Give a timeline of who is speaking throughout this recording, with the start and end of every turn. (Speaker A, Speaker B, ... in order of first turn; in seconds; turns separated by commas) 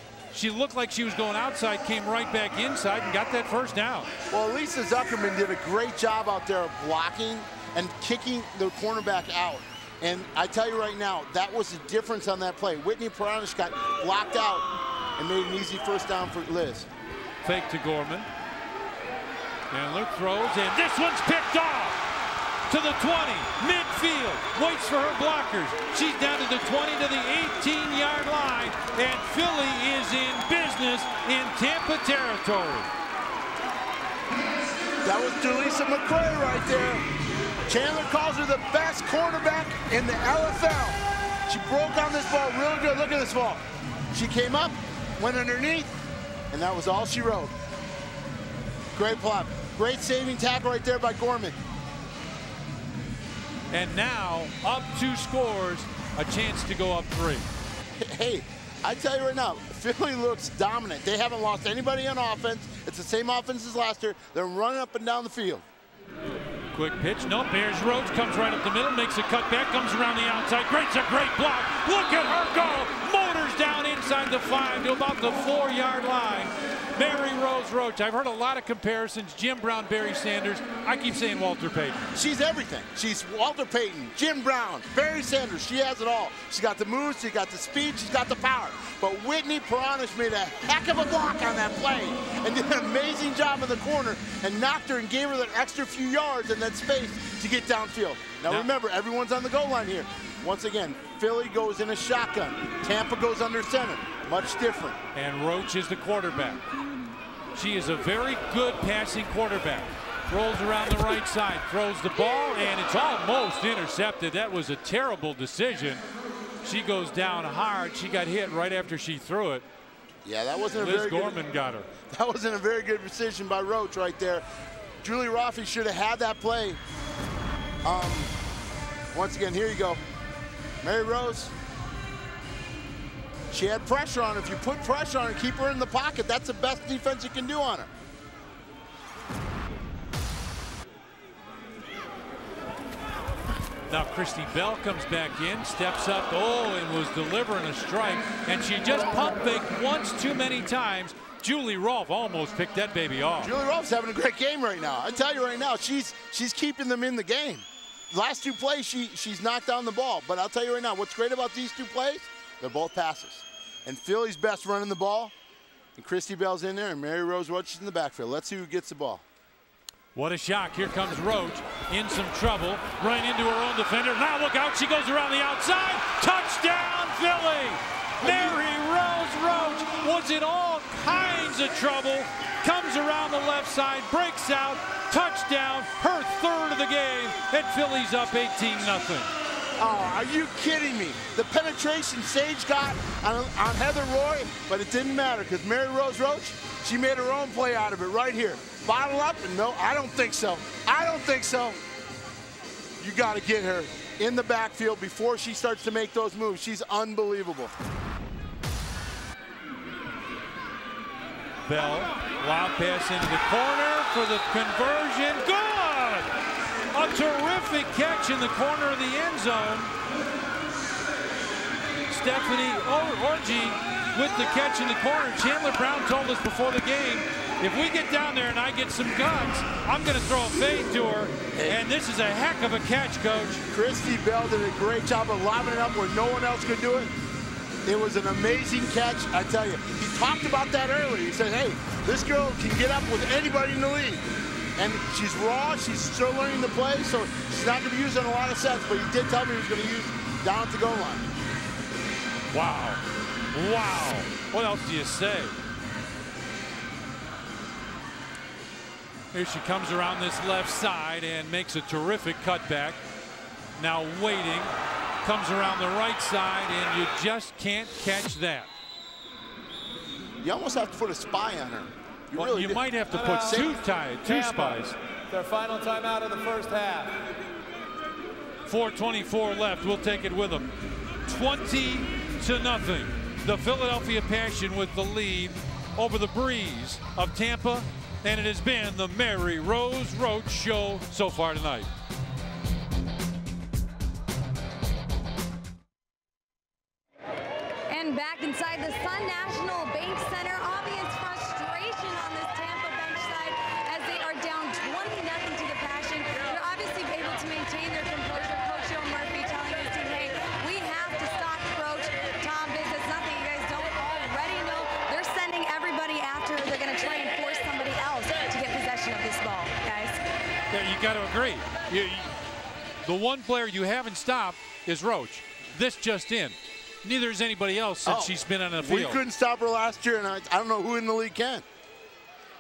Speaker A: 0.3-4.1, Speaker B: 4.3-16.9, Speaker A: 17.4-18.3, Speaker A: 19.7-22.0, Speaker A: 22.7-32.9, Speaker B: 35.0-37.0, Speaker B: 37.7-46.0, Speaker B: 46.5-47.5, Speaker B: 48.9-51.6, Speaker A: 53.7-57.5, Speaker B: 58.0-65.6, Speaker A: 66.7-82.0, Speaker B: 82.1-105.0, Speaker A: 105.1-106.6, Speaker A: 107.5-116.0, Speaker A: 116.6-119.7, Speaker B: 120.2-121.4, Speaker A: 120.8-121.9, Speaker B: 122.1-124.4, Speaker B: 125.0-126.8, Speaker B: 127.8-128.3, Speaker B: 129.1-130.0, Speaker B: 130.8-131.5, Speaker B: 133.5-137.9, Speaker A: 143.9-153.5, Speaker B: 153.4-165.3, Speaker B: 165.9-169.2, Speaker A: 170.1-189.3, Speaker B: 178.2-178.6, Speaker B: 189.8-201.8, Speaker B: 203.0-207.7, Speaker A: 211.7-216.3, Speaker A: 216.9-219.9, Speaker A: 222.1-233.6, Speaker B: 231.5-231.8, Speaker B: 233.7-237.1, Speaker B: 237.8-244.2, Speaker B: 244.8-251.3, Speaker A: 252.5-255.6, Speaker A: 259.3-263.0, Speaker A: 263.8-268.7, Speaker B: 270.4-272.9, Speaker A: 272.3-274.9, Speaker C: 273.1-277.2, Speaker B: 273.5-273.7, Speaker A: 278.6-280.7, Speaker A: 281.2-291.9, Speaker D: 297.9-320.2, Speaker A: 320.7-322.3, Speaker A: 323.0-329.2, Speaker B: 328.0-331.6